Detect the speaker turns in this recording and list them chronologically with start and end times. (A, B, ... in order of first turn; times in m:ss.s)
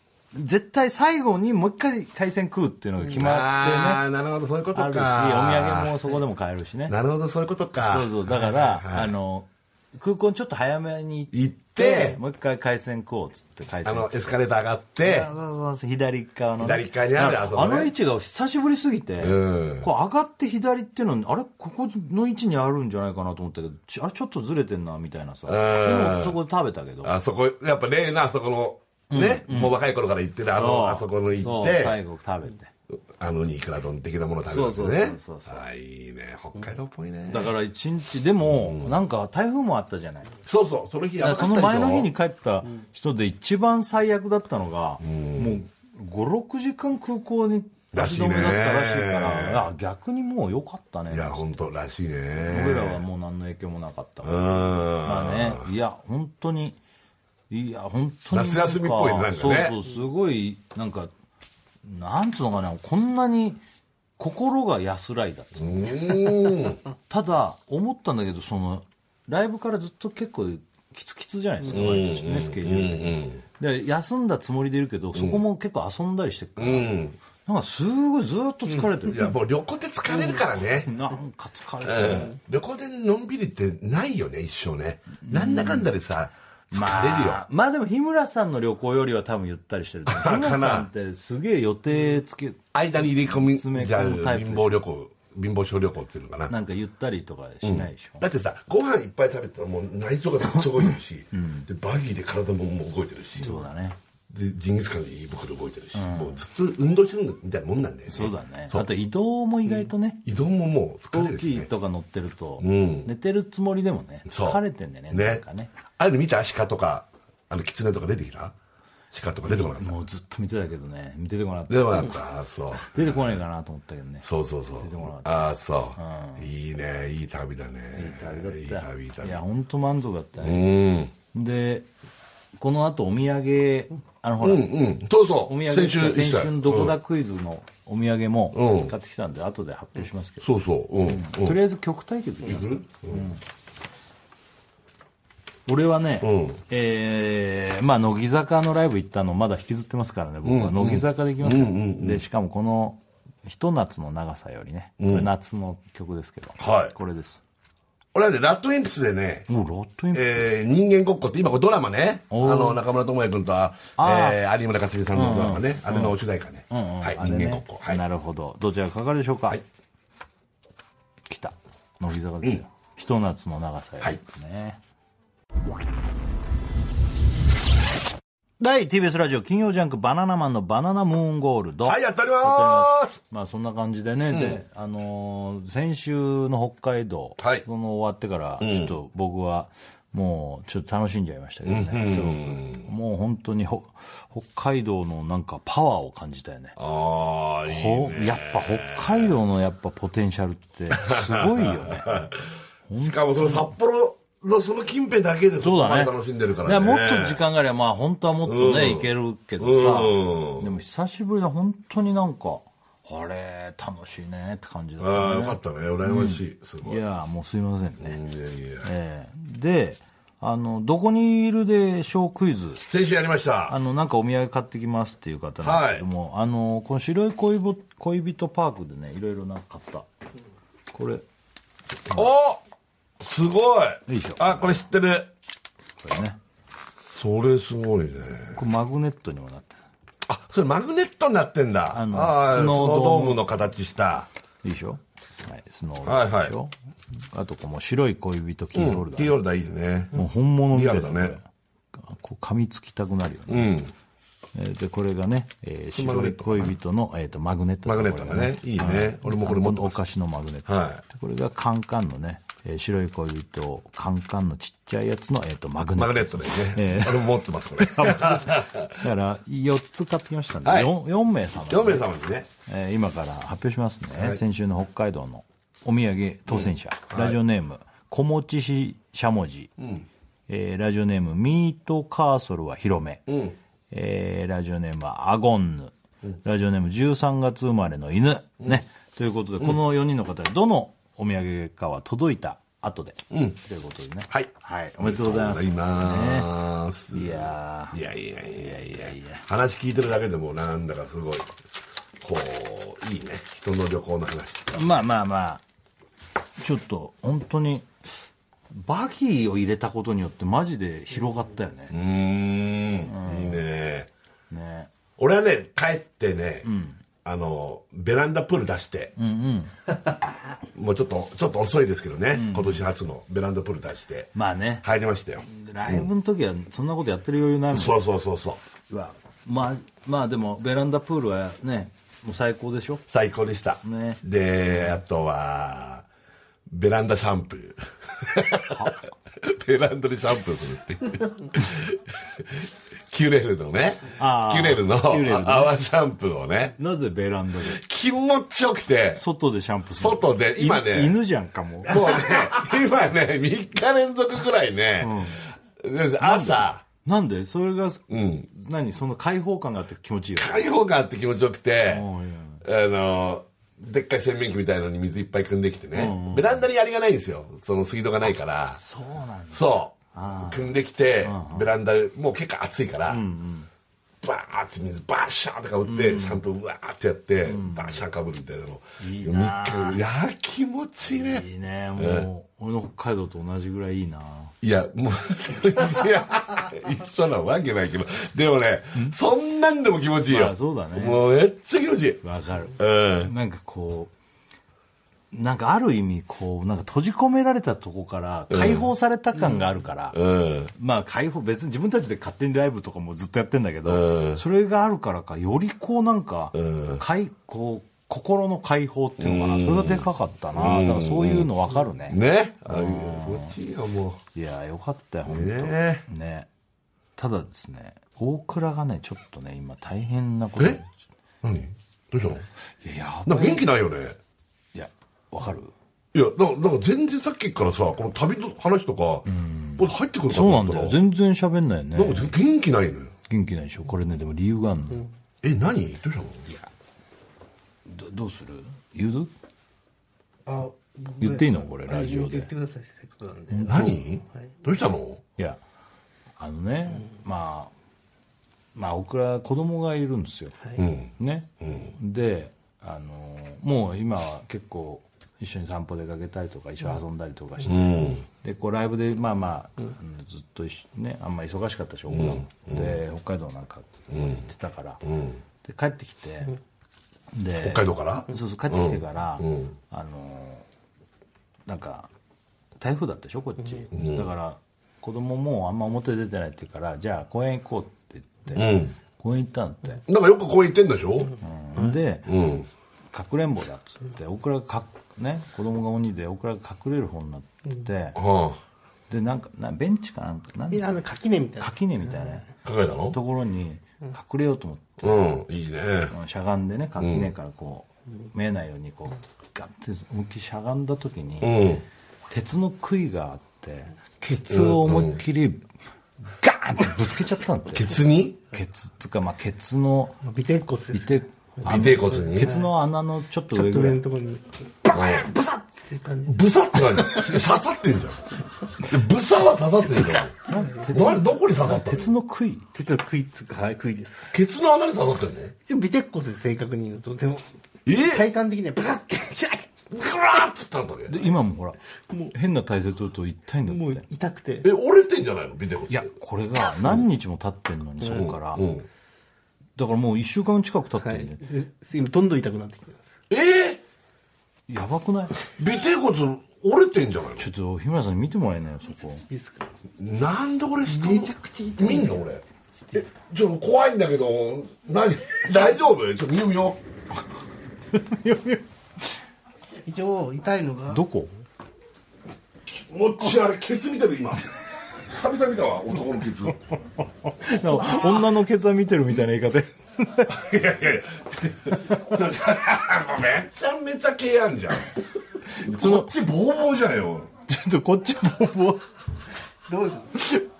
0:00.3-0:04.0 A
0:03.0-0:06.0 B
0:04.7-0:06.9 A
0:06.9-0:09.1 B
0:07.8-0:14.2 A
0:11.3-0:12.2 B
0:13.8-0:15.3 B
0:15.0-0:27.1 A
0:16.6-0:17.9 B
0:19.2-0:19.9 B
0:25.4-0:26.4 B
0:27.0-0:32.0 B
0:29.1-0:29.7 A
0:30.5-0:32.7 A
0:32.9-0:37.5 B
0:34.4-0:35.6 A
0:37.3-0:40.3 A
0:38.4-0:39.0 B
0:40.4-0:42.1 B
0:41.2-0:51.7 A
0:45.0-0:45.6 B
0:47.9-0:49.7 B
0:51.1-0:53.0 B
0:52.4-0:56.8 A
0:54.2-0:55.7 B
0:57.5-1:01.1 A
0:58.3-0:59.8 B
1:01.8-1:03.6 A
1:04.2-1:19.3 A
1:05.6-1:06.8 B
1:11.7-1:13.4 B
1:15.1-1:15.4 B
1:16.6-1:17.2 B
1:19.0-1:20.9 B
1:20.8-1:22.4 A
1:21.8-1:27.4 B
1:25.2-1:25.9 A
1:26.7-1:34.8 A
1:30.0-1:30.9 B
1:32.7-1:36.5 B
1:36.5-1:38.2 A
1:37.6-1:43.6 B
1:41.3-1:41.7 A
1:43.4-1:44.0 A
1:44.3-1:48.9 B
1:45.9-1:46.4 A
1:48.1-1:50.2 A
1:50.2-1:51.7 B
1:51.1-1:55.7 A
1:52.6-1:53.1 B
1:54.3-1:55.4 B
1:56.0-1:58.5 B
1:59.1-2:00.0 B
1:59.4-2:02.2 A
2:01.7-2:03.4 B
2:02.7-2:04.2 A
2:04.2-2:09.4 B
2:04.8-2:06.5 A
2:07.9-2:10.8 A
2:10.4-2:11.1 B
2:11.3-2:11.9 A
2:12.6-2:14.7 A
2:14.4-2:16.9 B
2:15.4-2:20.5 A
2:18.5-2:18.9 B
2:20.4-2:21.6 B
2:21.0-2:23.4 A
2:22.4-2:23.3 B
2:25.7-2:37.4 A
2:26.2-2:26.6 B
2:30.4-2:32.2 B
2:35.0-2:35.3 B
2:36.6-2:36.9 B
2:38.1-2:39.5 B
2:39.5-2:40.5 A
2:40.1-2:48.0 B
2:42.3-2:42.8 A
2:44.0-2:44.4 A
2:45.1-2:46.2 A
2:46.7-2:49.6 A
2:51.3-2:54.8 A
2:58.6-3:16.8 A
3:01.8-3:03.2 B
3:04.3-3:04.6 B
3:07.4-3:07.6 B
3:08.6-3:08.9 B
3:11.6-3:12.9 B
3:16.8-3:19.3 B
3:17.6-3:22.3 A
3:20.9-3:27.4 B
3:22.9-3:23.7 A
3:25.6-3:38.2 A
3:28.4-3:30.7 B
3:35.0-3:37.0 B
3:38.0-3:38.9 B
3:38.8-3:42.8 A
3:42.9-3:43.8 B
3:43.7-3:50.0 A
3:45.6-3:46.0 B
3:50.9-3:51.2 A
3:52.1-3:52.6 B
3:53.2-3:55.3 B
3:54.1-3:54.8 A
3:56.0-3:56.4 A
3:57.0-3:58.6 B
3:58.5-3:59.8 A
4:00.2-4:04.3 B
4:01.9-4:03.4 A
4:04.6-4:06.7 A
4:06.0-4:06.5 B
4:07.3-4:09.4 A
4:08.7-4:11.4 B
4:10.1-4:13.8 A
4:13.5-4:13.9 B
4:14.5-4:32.0 A
4:16.0-4:16.7 B
4:17.8-4:20.0 B
4:20.6-4:21.0 B
4:26.0-4:29.0 B
4:30.6-4:30.9 B
4:31.6-4:32.5 B
4:32.6-4:39.7 A
4:34.1-4:34.4 B
4:36.5-4:37.4 B
4:39.8-4:40.0 B
4:40.5-4:43.3 A
4:43.3-4:43.6 B
4:43.9-4:56.5 A
4:53.3-4:53.6 B
4:54.3-5:01.5 B
4:57.1-4:59.4 A
5:02.2-5:04.9 B
5:04.7-5:05.6 A
5:06.6-5:07.9 A
5:08.7-5:12.0 A
5:11.9-5:14.1 B
5:13.0-5:13.6 A
5:14.5-5:14.9 A
5:15.2-5:16.7 B
5:16.6-5:17.0 A
5:17.2-5:19.1 B
5:19.2-5:19.8 A
5:20.7-5:26.1 B
5:22.3-5:22.8 A
5:24.3-5:24.8 A
5:25.5-5:28.0 A
5:27.7-5:28.6 B
5:28.9-5:33.0 A
5:33.1-5:36.0 B
5:33.8-5:34.2 A
5:36.7-5:46.8 B
5:38.6-5:39.1 A
5:44.2-5:45.7 A
5:46.8-5:47.8 A
5:47.6-5:49.2 B
5:49.1-5:52.2 A
5:49.9-5:51.2 B
5:51.8-5:56.8 B
5:55.0-5:55.4 A
5:56.2-6:00.7 A
5:58.1-5:58.4 B
6:00.4-6:02.1 B
6:01.9-6:02.6 A
6:02.6-6:08.8 B
6:05.9-6:06.6 A
6:08.8-6:11.7 A
6:09.5-6:13.2 B
6:13.1-6:13.7 A
6:14.2-6:21.4 B
6:15.8-6:16.4 A
6:17.4-6:18.0 A
6:19.0-6:20.0 A
6:21.1-6:24.5 A
6:22.0-6:22.3 B
6:24.6-6:32.2 B
6:30.3-6:31.2 A
6:32.2-6:34.1 A
6:32.8-6:33.3 B
6:35.3-6:40.2 A
6:38.5-6:38.9 B
6:40.1-6:40.7 B
6:40.7-6:53.6 A
6:43.8-6:44.4 B
6:46.5-6:47.0 B
6:49.2-6:51.5 B
6:52.1-6:54.2 B
6:54.3-6:56.5 A
6:55.2-6:56.0 B
6:57.2-7:00.9 A
7:01.4-7:02.5 B
7:02.8-7:03.6 A
7:03.2-7:04.2 B
7:04.7-7:05.7 A
7:06.1-7:11.0 B
7:09.3-7:12.4 A
7:11.9-7:13.1 B
7:13.3-7:15.0 A
7:15.4-7:16.5 B
7:17.9-7:19.3 A
7:20.4-7:23.9 C
7:21.2-7:22.5 A
7:23.5-7:24.0 A
7:23.6-7:25.2 B
7:26.4-7:27.7 A
7:28.7-7:45.0 A
7:30.8-7:31.9 B
7:37.6-7:38.2 B
7:42.1-7:43.0 B
7:44.1-7:44.5 B
7:45.0-7:45.4 B
7:45.6-7:46.6 A
7:47.3-7:50.6 A
7:47.6-7:49.7 B
7:51.7-7:52.1 A
7:52.8-8:00.0 A
7:53.9-7:54.3 B
7:58.5-7:59.0 B
8:00.1-8:01.4 B
8:01.4-8:02.3 A
8:02.3-8:02.7 B
8:03.1-8:08.2 A
8:08.2-8:08.6 B
8:09.1-8:11.0 A
8:10.7-8:12.4 C
8:11.6-8:12.5 A
8:12.6-8:13.2 B
8:13.1-8:15.4 A
8:15.0-8:16.1 B
8:16.1-8:21.7 A
8:17.0-8:17.3 B
8:21.4-8:21.8 B
8:22.3-8:25.6 A
8:24.4-8:25.2 B
8:26.4-8:28.0 A
8:27.7-8:28.4 B
8:28.5-8:30.2 A
8:30.2-8:32.7 C
8:30.9-8:34.0 A
8:31.6-8:32.5 B
8:33.5-8:37.4 C
8:34.9-8:35.3 B
8:36.2-8:38.3 B
8:38.8-8:40.3 B
8:40.4-8:42.7 A
8:40.5-8:41.2 C
8:40.9-8:42.1 B
8:42.7-8:44.3 C
8:44.3-8:45.5 B
8:45.7-8:49.7 C
8:47.8-8:48.3 B
8:49.9-8:51.3 B
8:51.1-8:51.8 A
8:52.3-8:54.0 A
8:53.7-8:54.7 C
8:54.6-8:56.1 B
8:55.9-8:58.6 A
8:56.7-8:57.0 B
8:58.0-8:58.8 B
8:59.8-9:01.4 A
9:01.0-9:03.1 C
9:03.3-9:03.8 B
9:04.7-9:05.4 A
9:05.6-9:07.5 B
9:07.4-9:09.2 A
9:09.3-9:09.7 C
9:10.0-9:12.4 B
9:10.8-9:12.2 C
9:12.8-9:13.1 C
9:12.9-9:16.8 B
9:17.9-9:18.6 A
9:19.8-9:21.0 C
9:20.9-9:21.4 A
9:22.6-9:26.6 B
9:27.4-9:30.3 A
9:27.6-9:28.0 B
9:30.3-9:35.0 B
9:35.5-9:36.1 A
9:35.5-9:37.3 B
9:37.5-9:38.8 A
9:39.7-9:40.4 C